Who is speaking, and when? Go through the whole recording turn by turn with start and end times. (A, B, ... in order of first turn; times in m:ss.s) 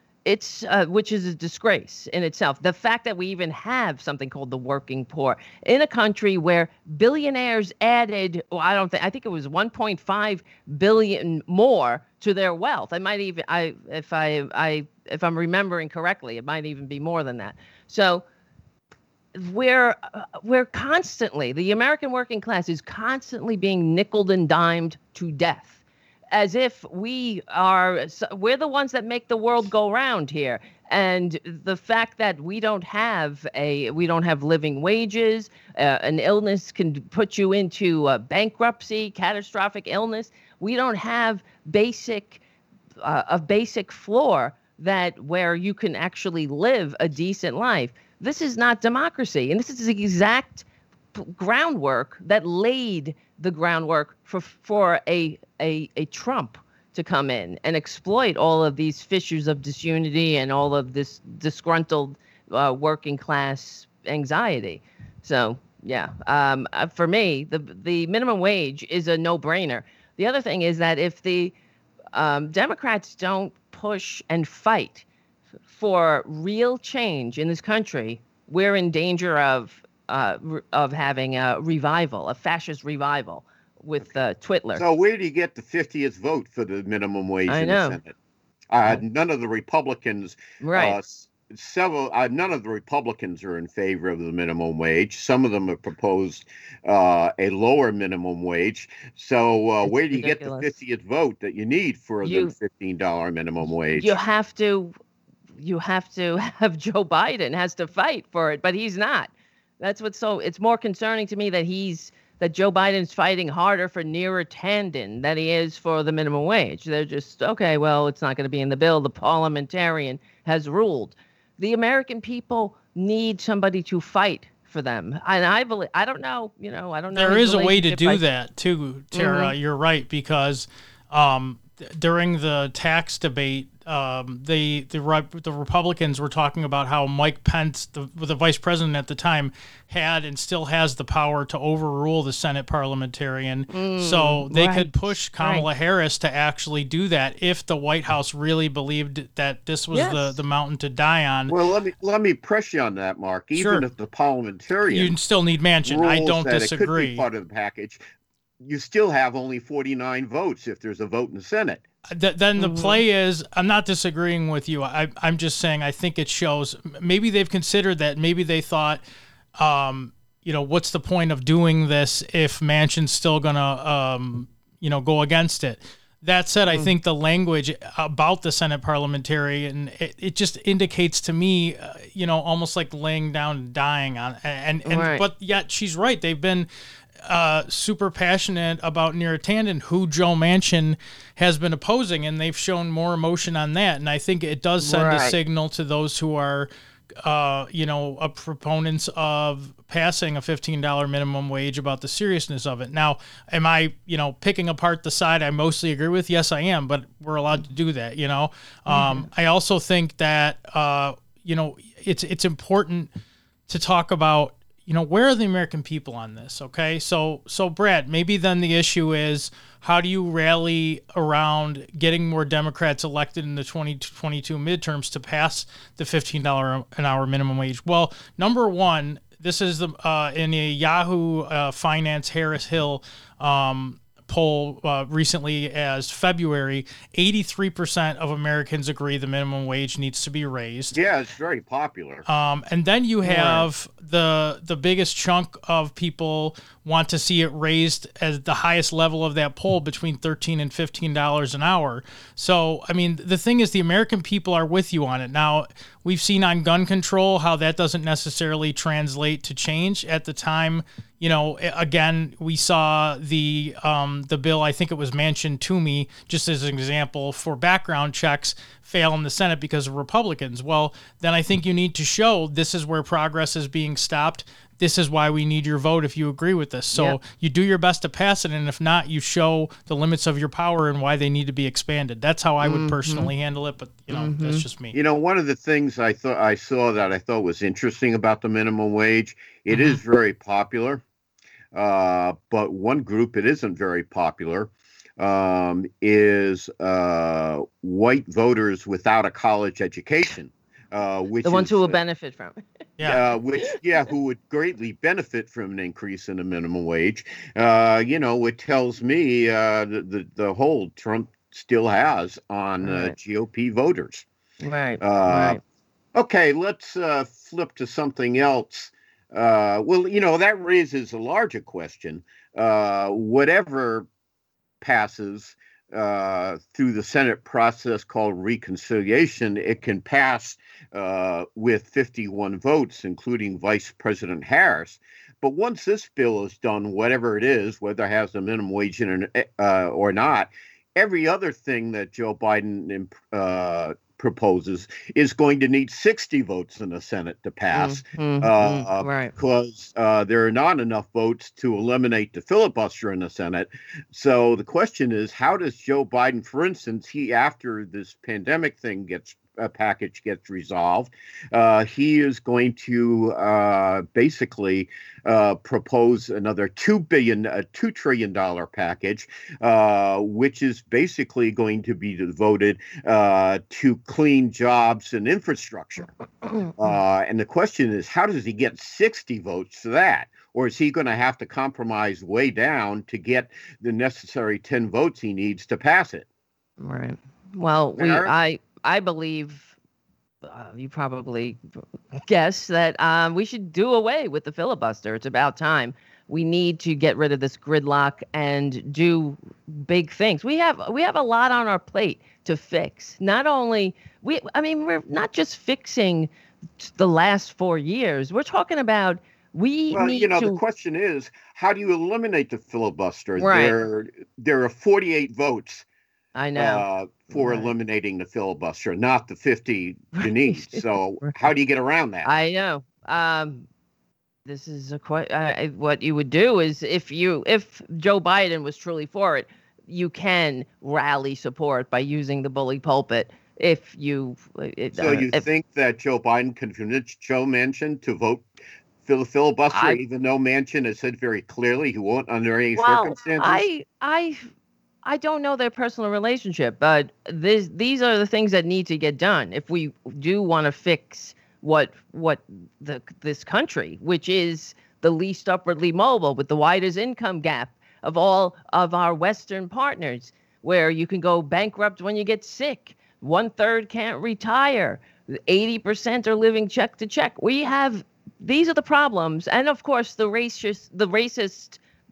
0:00.2-0:18.2 A
0:19.3-0:42.4 A
0:43.0-1:11.5 A
1:12.1-1:15.0 A
1:15.7-1:24.8 A
1:24.8-1:28.1 B
1:27.5-1:28.0 A
1:28.7-1:44.2 B
1:30.6-1:31.0 A
1:39.8-1:40.7 A
1:42.2-1:42.5 A
1:43.9-1:44.9 A
1:45.6-2:08.2 A
2:07.1-2:31.5 C
2:09.1-2:09.5 A
2:23.7-2:25.7 A
2:29.9-2:30.4 A
2:31.5-2:35.2 B
2:33.5-2:33.8 C
2:34.9-2:37.2 C
2:35.8-2:38.0 B
2:38.6-2:41.8 B
2:42.1-2:49.0 C
2:42.6-2:43.0 A
2:49.6-3:06.7 C
3:04.8-3:05.2 A
3:07.2-3:16.7 C
3:14.8-3:15.4 B
3:17.2-3:33.1 C
3:28.9-3:29.3 A
3:33.7-4:01.0 C
4:00.9-4:02.3 B
4:02.3-4:44.9 C
4:03.2-4:03.5 B
4:03.3-4:03.6 A
4:36.9-4:37.2 A
4:42.6-4:43.3 A
4:44.1-4:44.6 A
4:44.9-4:51.0 B
4:49.7-4:50.0 A
4:51.7-5:02.0 B
5:01.4-5:02.6 A
5:03.0-5:14.2 B
5:12.8-5:13.1 A
5:14.6-5:15.6 A
5:15.0-5:15.6 B
5:16.1-5:24.1 B
5:24.8-6:16.1 B
5:47.7-5:49.3 A
6:16.4-6:17.0 A
6:16.8-6:26.2 B
6:26.8-6:29.7 A
6:27.9-6:28.3 B
6:30.4-6:31.6 A
6:32.2-6:50.6 A
6:49.9-6:55.8 B
6:53.4-6:53.8 A
6:56.3-6:57.7 A
6:56.6-7:02.3 B
7:00.2-7:01.4 A
7:02.2-7:03.6 A
7:04.4-7:15.4 A
7:14.9-7:18.5 B
7:19.0-7:23.6 B
7:19.7-7:20.0 A
7:22.8-7:24.4 A
7:25.0-7:51.8 A